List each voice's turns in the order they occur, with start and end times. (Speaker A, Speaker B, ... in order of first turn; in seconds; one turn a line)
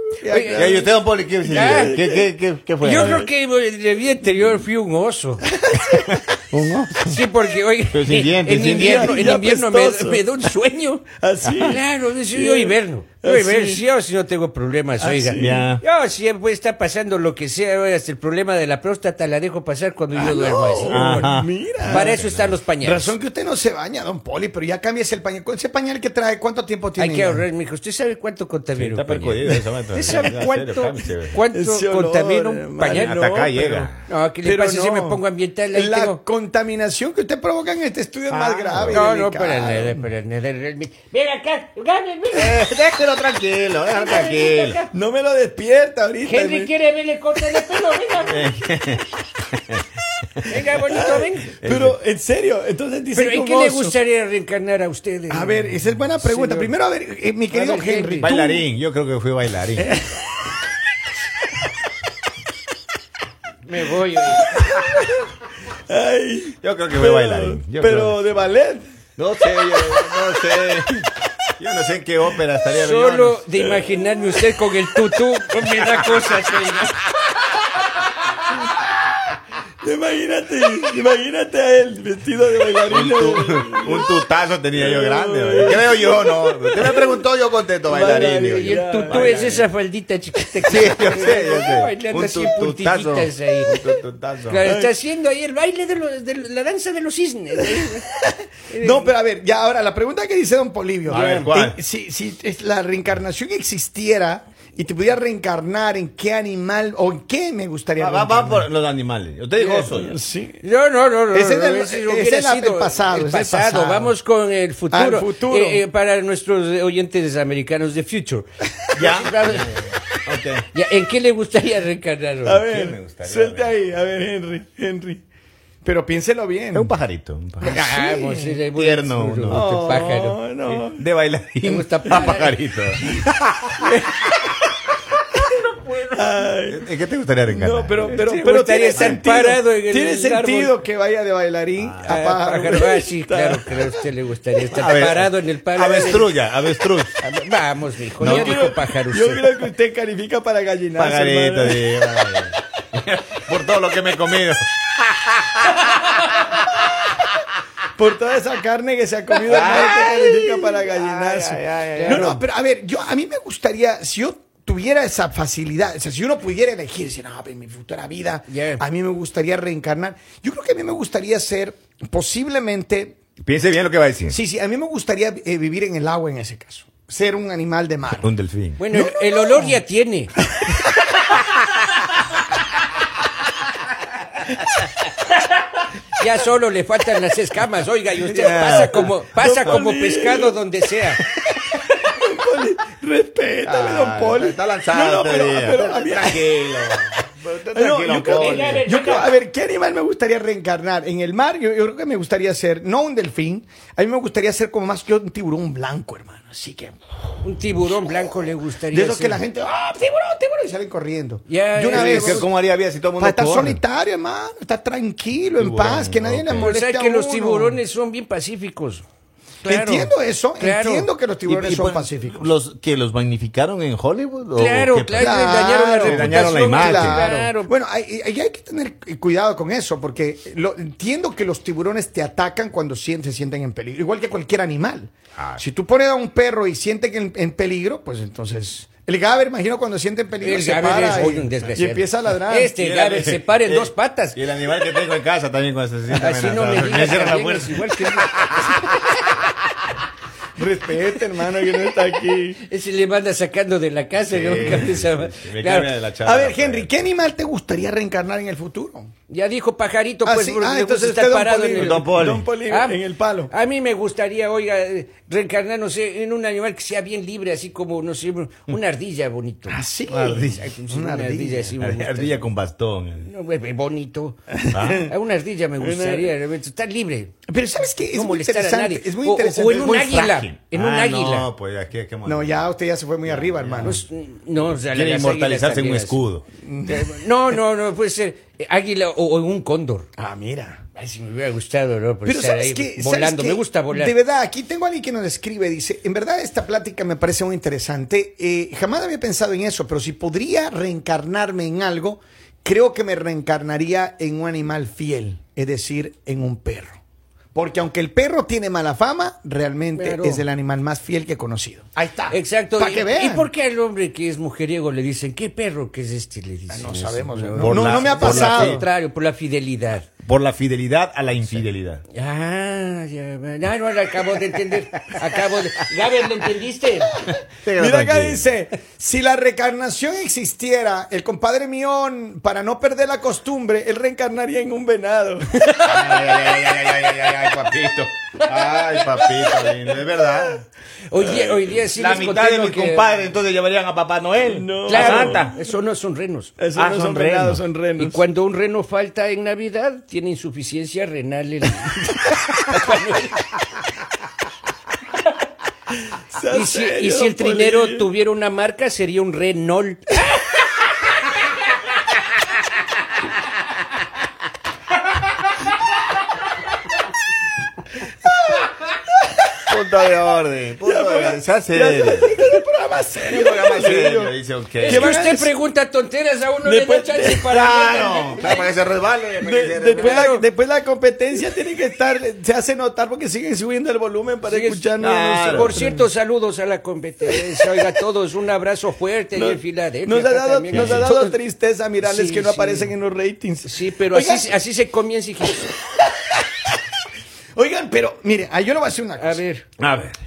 Speaker A: 0.2-0.9
Speaker B: 0.3-0.8
Speaker C: 0.5-3.1
Speaker B: 1.4-2.0
Speaker A: 1.8-2.3
Speaker B: 2.8-5.5
Speaker A: 2.9-3.3
Speaker A: 5.5-6.2
Speaker C: 5.8-7.1
Speaker B: 7.0-21.2
Speaker C: 7.9-9.2
Speaker A: 8.6-10.5
Speaker A: 11.2-11.8
Speaker C: 11.4-11.8
Speaker A: 12.3-13.8
Speaker A: 15.0-15.7
Speaker C: 15.4-15.8
Speaker A: 20.1-22.2
Speaker C: 20.9-22.6
Speaker B: 21.8-23.2
Speaker A: 22.8-27.4
Speaker B: 27.0-33.2
Speaker C: 28.8-31.4
Speaker A: 29.5-30.4
Speaker A: 31.5-33.9
Speaker C: 32.9-34.0
Speaker B: 34.1-36.2
Speaker A: 34.4-40.1
Speaker C: 38.3-39.0
Speaker B: 38.9-42.6
Speaker C: 42.3-44.8
Speaker B: 43.9-44.9
Speaker A: 44.9-46.7
Speaker B: 46.2-48.5
Speaker C: 48.2-49.8
Speaker B: 50.5-51.6
Speaker A: 50.9-54.0
Speaker C: 51.6-52.0
Speaker B: 53.1-56.7
Speaker A: 55.3-58.4
Speaker B: 57.5-58.7
Speaker C: 58.2-59.9
Speaker A: 59.8-60.3
Speaker B: 63.6-64.6
Speaker A: 64.4-65.3
Speaker A: 65.9-68.9
Speaker C: 66.6-68.4
Speaker C: 69.2-73.4
Speaker A: 69.6-70.2
Speaker B: 72.7-77.0
Speaker A: 73.6-75.0
Speaker C: 75.8-76.0
Speaker A: 79.8-84.1
Speaker C: 82.9-89.7
Speaker A: 84.7-87.2
Speaker A: 87.9-89.5
Speaker B: 88.5-93.8
Speaker C: 90.7-94.6
Speaker B: 94.5-98.1
Speaker A: 94.6-94.9
Speaker A: 97.6-97.8
Speaker B: 98.7-99.1
Speaker A: 98.8-108.7
Speaker C: 101.1-101.8
Speaker B: 101.2-101.4
Speaker C: 108.0-110.2
Speaker A: 109.6-110.6
Speaker B: 110.6-119.9
Speaker A: 111.3-114.1
Speaker A: 114.9-115.8
Speaker C: 119.0-120.7
Speaker B: 120.7-122.7
Speaker A: 122.4-125.2
Speaker C: 122.6-123.8
Speaker A: 125.8-126.9
Speaker C: 126.7-127.9
Speaker B: 127.6-130.4
Speaker A: 127.7-128.6
Speaker C: 128.7-130.0
Speaker A: 129.5-131.0
Speaker C: 130.7-134.3
Speaker B: 131.6-132.6
Speaker A: 133.8-134.2
Speaker A: 136.1-136.8
Speaker C: 136.7-138.2
Speaker A: 137.5-143.9
Speaker B: 138.0-140.8
Speaker C: 141.8-142.2
Speaker B: 142.1-146.3
Speaker C: 144.7-147.2
Speaker B: 147.2-149.5
Speaker A: 148.2-151.9
Speaker C: 148.2-148.7
Speaker C: 151.0-156.8
Speaker A: 158.0-173.2
Speaker C: 159.4-162.3
Speaker B: 162.0-162.4
Speaker B: 168.5-168.8
Speaker C: 173.4-174.4
Speaker A: 174.3-178.3
Speaker C: 178.2-178.8
Speaker B: 178.8-180.3
Speaker A: 178.9-179.8
Speaker B: 186.2-191.2
Speaker C: 188.2-189.1
Speaker A: 189.4-190.6
Speaker A: 191.7-196.6
Speaker C: 193.6-198.9
Speaker A: 197.7-207.0
Speaker B: 198.3-199.3
Speaker B: 207.4-209.4
Speaker A: 207.7-212.5
Speaker B: 211.5-212.5
Speaker C: 211.9-213.8
Speaker A: 213.2-217.8
Speaker C: 215.6-216.7
Speaker B: 216.6-219.1
Speaker B: 219.6-221.1
Speaker A: 219.7-222.5
Speaker C: 221.5-227.3
Speaker B: 224.6-227.7
Speaker A: 225.2-242.8
Speaker B: 240.4-244.4
Speaker C: 242.8-249.4
Speaker B: 246.1-249.0
Speaker A: 250.6-252.6
Speaker B: 252.6-255.9
Speaker C: 254.3-256.9
Speaker A: 256.2-259.1
Speaker B: 259.3-262.1
Speaker A: 260.2-263.5
Speaker C: 261.8-262.5
Speaker B: 262.6-272.5
Speaker A: 269.7-271.8
Speaker C: 270.1-270.6
Speaker C: 271.8-273.3
Speaker B: 273.2-277.3
Speaker A: 274.5-275.1
Speaker C: 274.7-275.1
Speaker A: 275.8-276.4
Speaker A: 277.5-280.1
Speaker B: 278.1-281.5
Speaker C: 279.7-282.7
Speaker A: 282.2-284.0
Speaker C: 283.3-284.0
Speaker B: 283.8-286.2
Speaker C: 284.6-286.4
Speaker A: 286.6-287.6
Speaker B: 286.9-290.1
Speaker A: 290.2-290.8
Speaker B: 291.0-294.1
Speaker A: 292.2-307.0
Speaker A: 307.5-313.5
Speaker B: 309.9-310.5
Speaker B: 312.3-320.1
Speaker A: 316.7-318.8
Speaker C: 317.6-318.8
Speaker C: 320.2-322.0
Speaker B: 322.1-327.1
Speaker A: 327.2-335.5
Speaker C: 327.3-328.5
Speaker B: 335.6-336.1
Speaker C: 335.8-340.6
Speaker B: 338.8-339.3
Speaker B: 341.1-343.1
Speaker A: 341.2-341.7
Speaker C: 341.8-345.5
Speaker A: 344.5-345.6
Speaker B: 344.9-346.5
Speaker A: 346.6-348.2
Speaker C: 346.8-347.6
Speaker B: 348.0-353.5
Speaker A: 356.3-358.1
Speaker B: 356.5-360.6
Speaker A: 368.2-368.6
Speaker C: 369.7-372.4
Speaker A: 370.8-375.5
Speaker C: 373.2-375.2
Speaker B: 374.8-378.6
Speaker A: 376.6-378.6
Speaker C: 377.4-380.3
Speaker A: 379.4-386.0
Speaker B: 380.0-380.4
Speaker B: 384.5-384.9
Speaker C: 385.0-385.7
Speaker B: 385.5-391.4
Speaker A: 387.3-387.6
Speaker A: 389.4-394.6
Speaker C: 390.7-391.1
Speaker B: 392.0-392.9
Speaker B: 393.6-395.7
Speaker A: 395.6-396.3
Speaker A: 397.6-399.4
Speaker B: 399.2-399.7
Speaker C: 399.8-400.2